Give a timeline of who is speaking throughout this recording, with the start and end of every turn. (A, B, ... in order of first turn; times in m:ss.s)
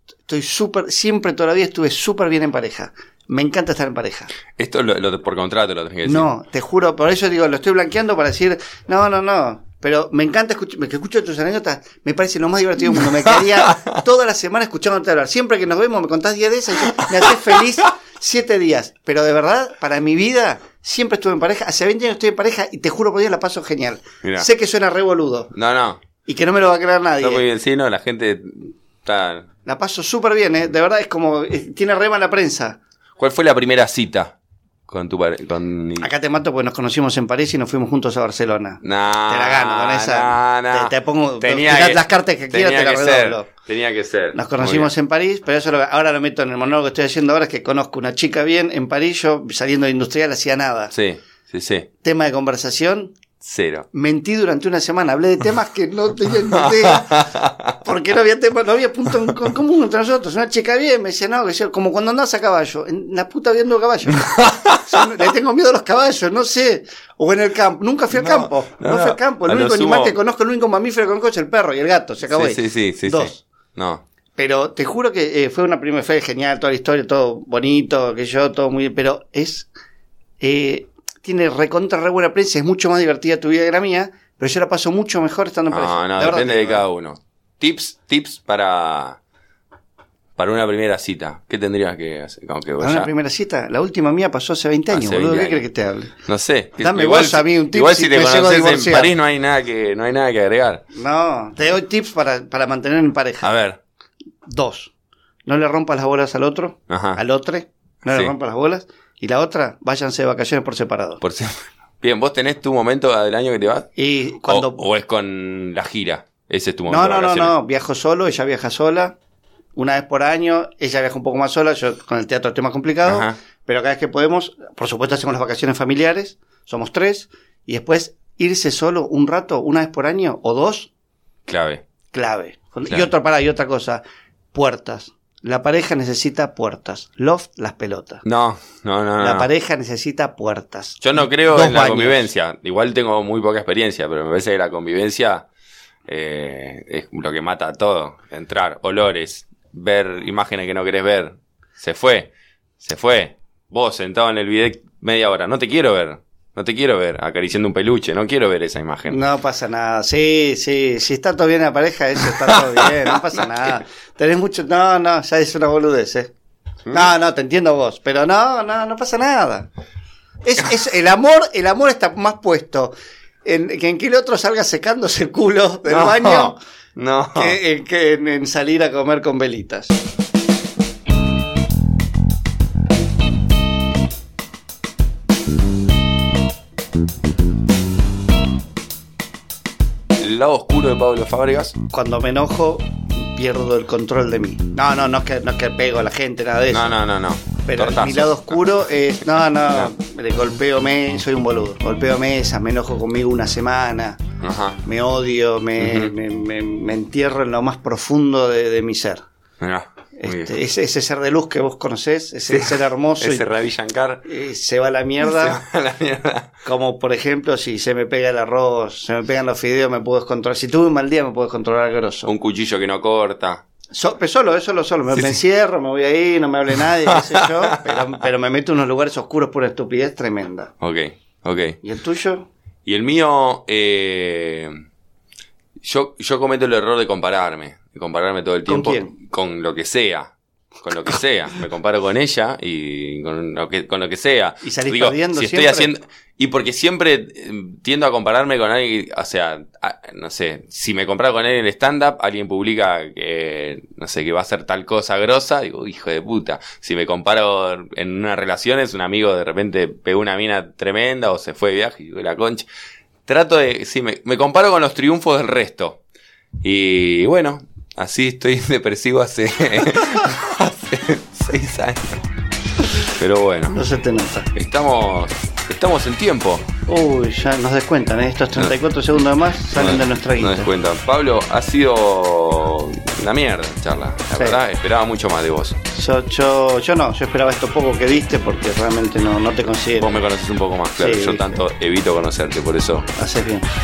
0:00.3-0:04.3 A
0:04.6-0:06.3 B
0:06.0-0:25.5 A
0:13.4-0:13.9 B
0:25.5-0:26.0 B
0:26.2-0:27.5 A
0:27.2-0:29.5 B
0:29.6-0:32.8 A
0:33.2-0:34.3 B
0:34.9-0:36.1 B
0:36.0-0:43.5 A
0:38.8-0:44.9 B
0:44.3-0:50.9 A
0:50.9-0:51.9 B
0:52.0-0:53.1 A
0:53.4-0:53.8 B
0:53.9-0:57.2 A
0:56.9-0:57.7 B
0:57.8-1:13.4 A
1:04.2-1:04.8 B
1:08.1-1:10.2 B
1:12.3-1:14.0 B
1:14.4-1:19.7 A
1:20.4-1:26.8 A
1:25.7-1:29.2 B
1:30.4-1:33.1 B
1:32.8-1:36.1 A
1:34.9-1:35.6 B
1:36.2-1:40.8 B
1:36.8-1:39.1 A
1:40.9-1:43.5 A
1:43.4-1:43.8 B
1:44.4-1:44.9 A
1:45.4-1:51.2 A
1:46.9-1:47.2 B
1:48.1-1:48.3 B
1:51.2-1:53.9 B
1:53.9-1:54.8 A
1:54.5-1:57.5 B
1:56.9-1:59.2 A
1:59.7-2:10.9 A
2:03.0-2:03.3 B
2:11.5-2:11.8 B
2:12.1-2:14.0 A
2:14.5-2:18.2 A
2:18.2-2:19.5 B
2:19.2-2:22.3 A
2:21.0-2:25.4 B
2:26.1-2:39.2 B
2:39.1-2:46.3 A
2:42.3-2:43.7 B
2:46.9-2:49.7 A
2:50.4-2:52.9 A
2:53.4-2:56.6 A
2:55.8-2:57.6 B
2:57.3-3:00.0 A
3:10.2-3:11.7 B
3:11.9-3:16.9 A
3:16.7-3:18.7 B
3:17.6-3:24.2 A
3:24.4-3:24.8 B
3:24.8-3:29.2 A
3:25.8-3:26.1 B
3:29.6-3:30.5 B
3:30.2-3:33.4 A
3:32.5-3:34.2 B
3:34.2-3:35.6 A
3:35.2-3:36.5 B
3:36.6-3:42.3 A
3:42.2-3:43.6 B
3:43.9-3:50.7 A
3:45.1-3:45.4 B
3:47.1-3:48.0 B
3:50.8-3:51.8 B
3:51.8-3:52.5 A
3:52.8-3:54.7 B
3:55.8-4:22.7 B
3:58.6-3:59.1 A
4:04.6-4:05.9 A
4:23.3-4:26.0 B
4:26.6-4:32.2 B
4:33.0-4:33.8 B
4:33.7-4:34.5 A
4:34.5-4:36.6 B
4:36.9-4:40.7 A
4:39.7-4:45.8 B
4:45.9-4:50.2 A
4:50.0-4:53.1 B
4:51.0-4:51.6 A
4:53.2-4:53.7 A